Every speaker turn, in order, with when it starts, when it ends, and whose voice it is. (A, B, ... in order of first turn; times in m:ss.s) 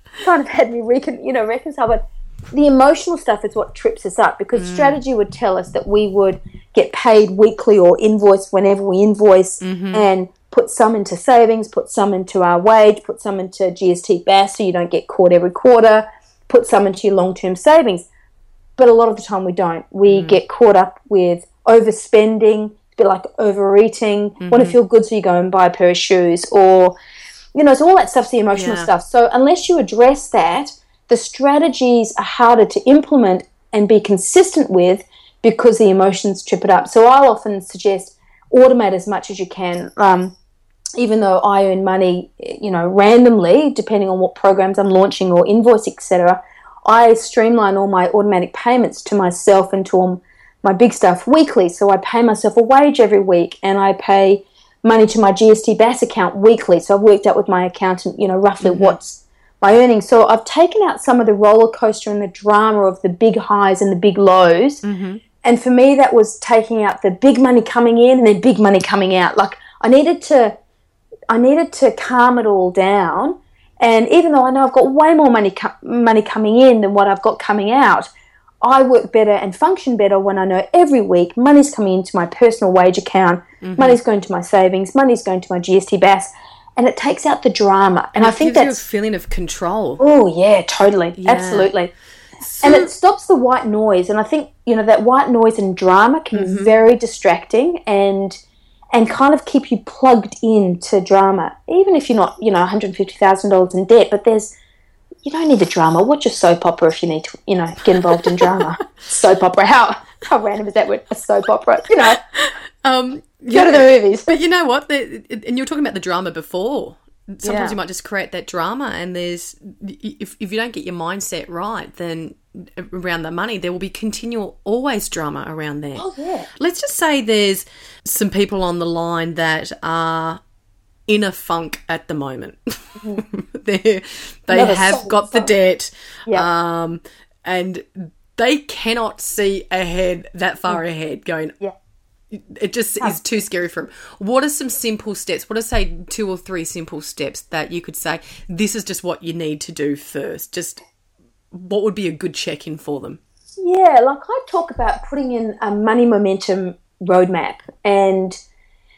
0:00.2-0:18.0 A
0:04.5-0:05.0 B
0:09.6-0:10.1 B
0:18.8-0:27.0 A
0:20.1-0:20.4 B
0:24.4-0:24.7 B
0:27.5-0:40.3 A
0:28.5-0:28.9 B
0:41.0-1:04.8 A
0:58.6-0:59.0 B
1:04.8-1:05.2 B
1:05.4-1:10.6 A
1:11.3-1:18.1 A
1:18.6-1:28.8 A
1:23.6-1:24.0 B
1:28.2-1:30.0 B
1:30.0-1:31.9 A
1:31.2-1:31.7 B
1:32.4-1:32.9 B
1:32.6-1:38.4 A
1:36.3-1:36.7 B
1:38.9-1:44.5 A
1:45.2-1:52.2 A
1:48.1-1:48.7 B
1:52.0-2:06.0 B
1:53.5-1:54.3 A
1:57.4-1:57.8 A
2:06.0-2:06.5 A
2:06.6-2:10.4 B
2:11.1-2:21.6 B
2:13.0-2:13.2 A
2:14.5-2:15.5 A
2:22.3-2:30.8 B
2:31.5-2:33.2 B
2:33.6-2:38.4 A